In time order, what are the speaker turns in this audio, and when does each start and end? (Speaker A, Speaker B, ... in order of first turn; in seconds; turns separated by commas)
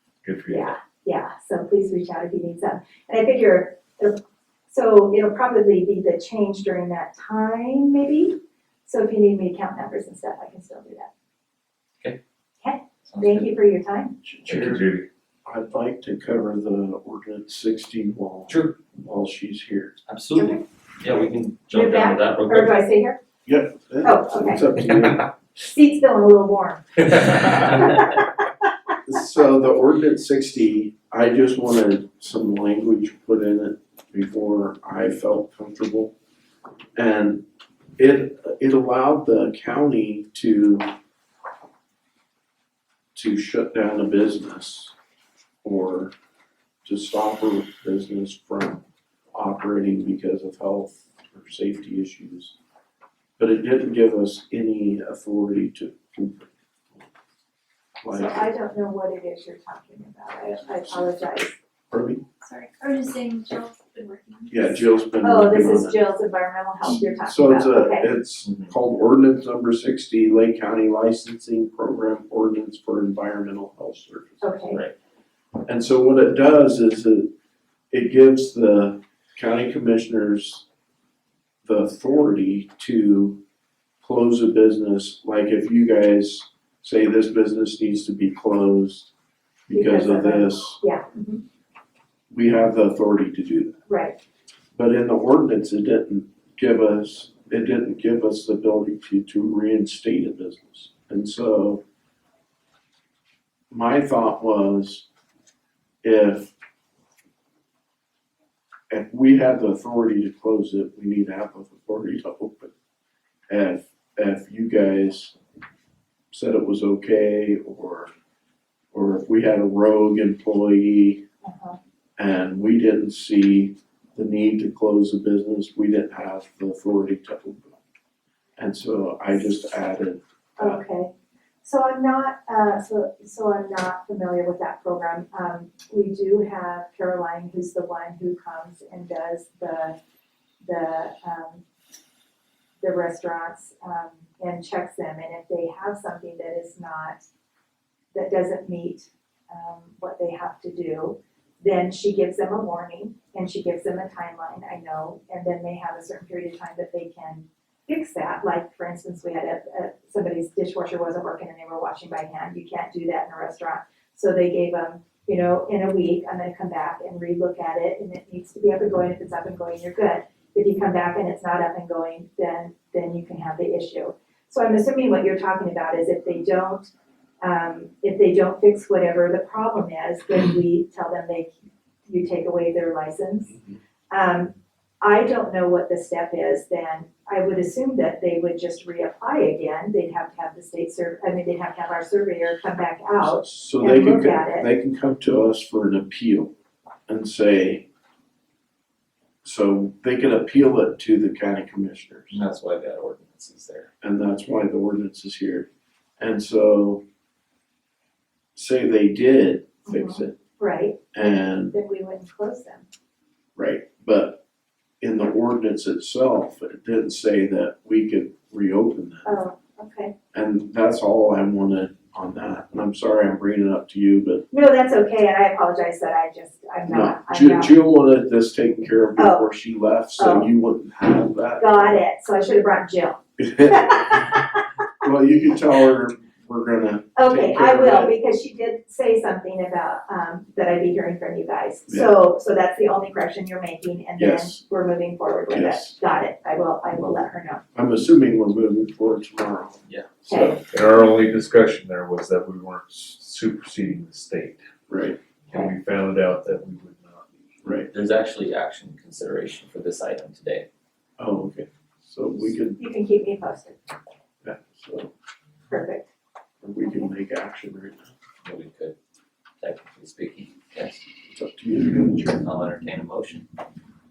Speaker A: 0.2-0.7, Speaker B: 0.5-11.1, Speaker B: 12.6-14.2, Speaker C: 13.1-13.5, Speaker D: 14.2-14.9, Speaker A: 14.5-15.1, Speaker D: 15.4-19.9, Speaker C: 18.5-18.7, Speaker C: 20.1-22.7, Speaker B: 20.4-20.6, Speaker B: 21.7-23.2, Speaker D: 23.5-25.3, Speaker B: 24.0-24.6, Speaker C: 24.8-25.1, Speaker B: 25.6-28.2, Speaker D: 29.0-36.1, Speaker D: 37.0-37.5, Speaker D: 38.0-40.9, Speaker D: 43.1-45.0, Speaker D: 45.6-46.1, Speaker D: 46.8-48.8, Speaker D: 49.3-52.5, Speaker D: 53.4-57.0, Speaker D: 58.0-58.5, Speaker B: 58.1-61.6, Speaker D: 61.9-62.2, Speaker E: 62.4-65.0, Speaker D: 64.5-66.0, Speaker B: 65.2-68.1, Speaker E: 66.9-67.2, Speaker D: 67.2-74.5, Speaker C: 68.4-68.7, Speaker B: 74.4-74.8, Speaker D: 75.7-77.3, Speaker D: 77.9-80.7, Speaker D: 81.6-83.4, Speaker D: 84.0-89.1, Speaker D: 89.7-90.8, Speaker B: 89.7-91.4, Speaker D: 92.3-93.8, Speaker B: 93.9-94.2, Speaker D: 94.7-101.8, Speaker D: 103.7-105.1, Speaker D: 106.0-106.5, Speaker D: 108.9-112.7, Speaker D: 113.5-115.3, Speaker D: 116.3-118.1, Speaker D: 118.9-121.2, Speaker B: 121.4-121.8, Speaker D: 122.2-127.8, Speaker D: 128.6-130.8, Speaker B: 130.6-131.1, Speaker B: 131.6-140.0, Speaker B: 140.6-141.6, Speaker B: 142.8-147.2, Speaker B: 148.1-181.5, Speaker B: 182.1-183.6, Speaker B: 184.1-194.7, Speaker D: 193.2-196.5, Speaker D: 197.1-197.8, Speaker D: 199.4-202.4, Speaker C: 202.3-203.9, Speaker D: 204.0-205.7, Speaker D: 206.2-207.0, Speaker D: 208.6-210.4, Speaker B: 209.8-212.9, Speaker D: 211.1-211.8, Speaker D: 213.6-214.4, Speaker D: 215.0-219.3, Speaker B: 219.2-220.1, Speaker D: 220.3-224.4, Speaker B: 224.5-227.7, Speaker D: 226.9-232.0, Speaker B: 229.2-229.5, Speaker B: 230.2-230.5, Speaker B: 231.6-234.6, Speaker D: 233.4-234.3, Speaker D: 235.0-238.1, Speaker B: 237.2-247.6, Speaker D: 244.2-244.6, Speaker D: 245.5-246.0, Speaker D: 247.7-250.7, Speaker C: 249.9-250.1, Speaker B: 250.3-250.6, Speaker A: 250.7-254.6, Speaker D: 254.9-255.2, Speaker A: 255.5-257.6, Speaker D: 257.6-257.9, Speaker C: 257.9-260.6, Speaker D: 261.2-262.8, Speaker B: 262.8-263.8, Speaker D: 264.4-265.1, Speaker B: 265.7-266.1, Speaker D: 266.6-268.1, Speaker B: 266.8-267.1, Speaker C: 268.4-268.9, Speaker C: 269.6-271.0, Speaker D: 271.3-272.4, Speaker C: 272.4-273.4